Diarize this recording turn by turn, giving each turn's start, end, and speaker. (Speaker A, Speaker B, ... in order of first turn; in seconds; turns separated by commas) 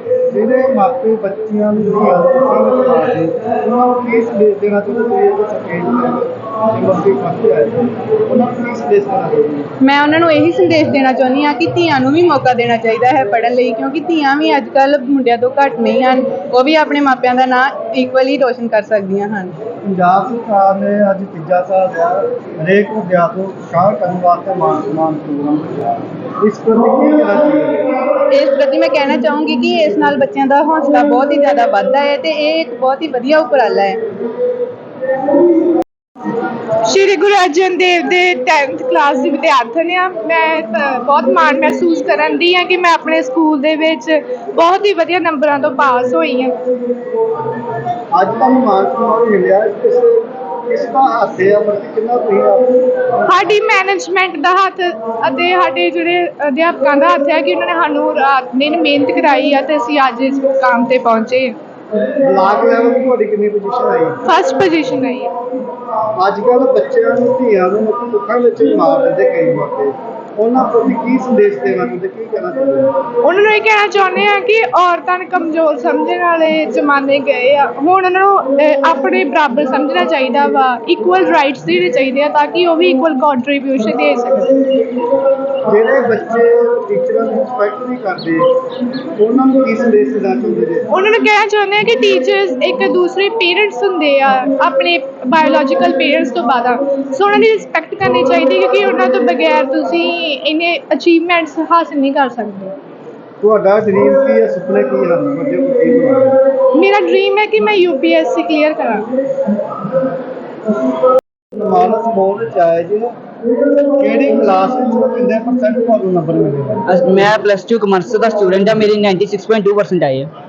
Speaker A: 0.3-9.7, Speaker B: 9.8-19.5, Speaker A: 19.8-28.1, Speaker B: 28.3-34.0, Speaker C: 36.9-46.5, Speaker A: 48.1-53.0, Speaker C: 53.3-61.6, Speaker A: 62.2-64.2, Speaker C: 64.3-65.3, Speaker A: 66.2-72.9, Speaker C: 73.2-84.5, Speaker A: 85.7-88.5, Speaker A: 89.2-90.9, Speaker C: 90.9-102.7, Speaker A: 103.4-106.4, Speaker C: 106.8-109.1, Speaker A: 111.5-113.1, Speaker A: 114.0-116.8, Speaker D: 116.9-120.3